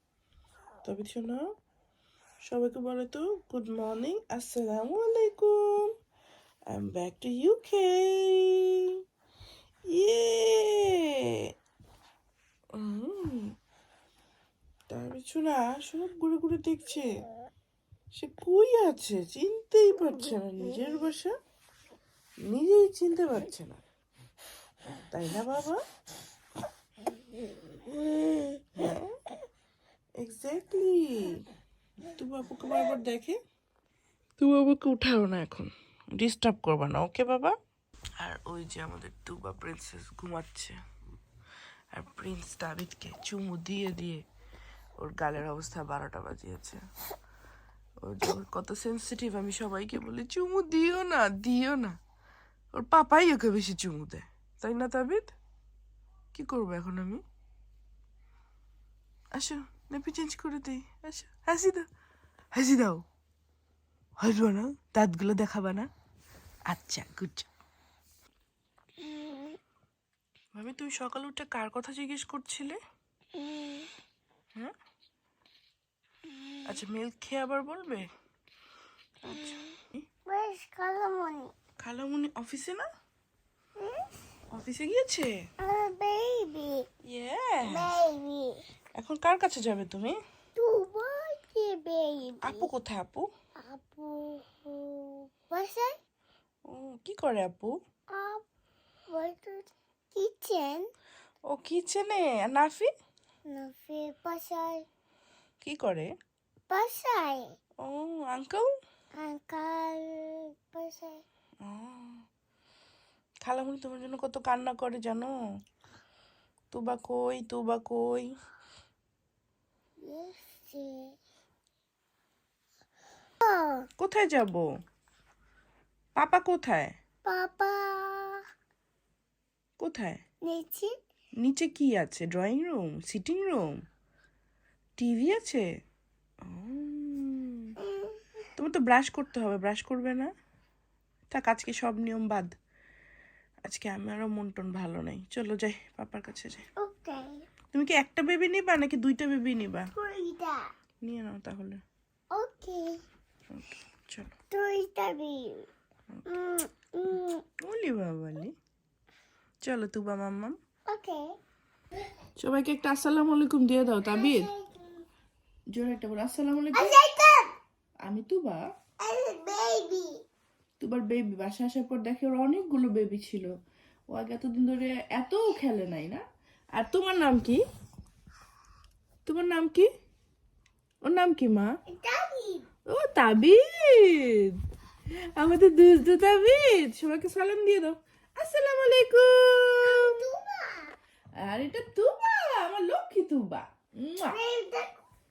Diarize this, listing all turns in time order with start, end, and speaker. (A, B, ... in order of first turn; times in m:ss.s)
0:00.8-0:01.5 A
0:02.4-0:05.9 A
0:06.7-0:09.0 A
0:09.9-0:11.3 A
0:12.7-0:13.5 A
0:14.9-0:17.1 A
0:18.1-0:21.3 A
0:22.4-0:23.8 A
0:25.1-0:25.8 A
0:28.4-0:29.1 A
0:30.2-0:31.4 A
0:32.1-0:33.4 A
0:34.4-0:37.5 A
0:38.2-0:40.8 A
0:41.9-0:44.2 A
0:45.0-0:46.8 A
0:48.0-0:52.0 A
0:52.7-0:55.3 A
0:56.3-0:57.2 A
0:59.3-1:01.9 A
1:02.5-1:03.0 A
1:04.2-1:05.9 A
1:06.7-1:07.5 A
1:10.5-1:12.8 A
1:13.3-1:13.9 B
1:16.6-1:18.1 A
1:19.2-1:20.0 A
1:20.3-1:21.5 B
1:21.8-1:22.9 A
1:23.8-1:24.1 B
1:24.5-1:25.4 A
1:25.6-1:26.9 B
1:27.0-1:27.9 A
1:27.7-1:28.6 B
1:29.0-1:30.2 A
1:30.6-1:32.7 B
1:32.4-1:33.3 A
1:33.6-1:36.0 B
1:36.7-1:37.7 A
1:38.1-1:38.4 B
1:39.1-1:40.9 B
1:41.5-1:42.9 A
1:43.5-1:44.8 B
1:45.6-1:46.1 A
1:46.7-1:47.5 B
1:47.8-1:48.7 A
1:49.1-1:51.2 B
1:51.6-1:52.2 A
1:53.4-1:55.3 A
1:56.7-1:58.3 A
2:00.0-2:01.2 B
2:03.4-2:03.9 B
2:04.0-2:04.6 A
2:06.2-2:06.9 A
2:07.2-2:08.4 B
2:09.8-2:10.2 A
2:10.4-2:10.9 B
2:11.4-2:13.8 A
2:15.0-2:15.6 A
2:16.4-2:17.7 A
2:17.8-2:18.2 B
2:18.6-2:20.3 A
2:21.3-2:22.5 A
2:23.6-2:26.6 A
2:26.8-2:27.4 B
2:27.7-2:29.9 A
2:29.9-2:30.6 B
2:31.0-2:31.8 A
2:32.3-2:33.0 B
2:33.5-2:34.3 A
2:34.5-2:35.7 B
2:36.2-2:37.4 B
2:37.6-2:38.5 A
2:39.6-2:40.6 A
2:40.9-2:41.3 B
2:42.4-2:44.5 A
2:44.0-2:45.0 B
2:45.7-2:47.0 A
2:46.7-2:47.6 B
2:48.0-2:48.6 A
2:49.0-2:50.2 B
2:50.8-2:53.5 A
2:54.1-2:56.2 A
2:56.7-2:57.6 A
2:59.2-2:59.9 A
3:01.0-3:01.7 A
3:01.9-3:02.7 B
3:02.9-3:04.6 A
3:05.3-3:10.2 A
3:09.8-3:10.9 B
3:11.4-3:14.4 A
3:14.2-3:15.0 B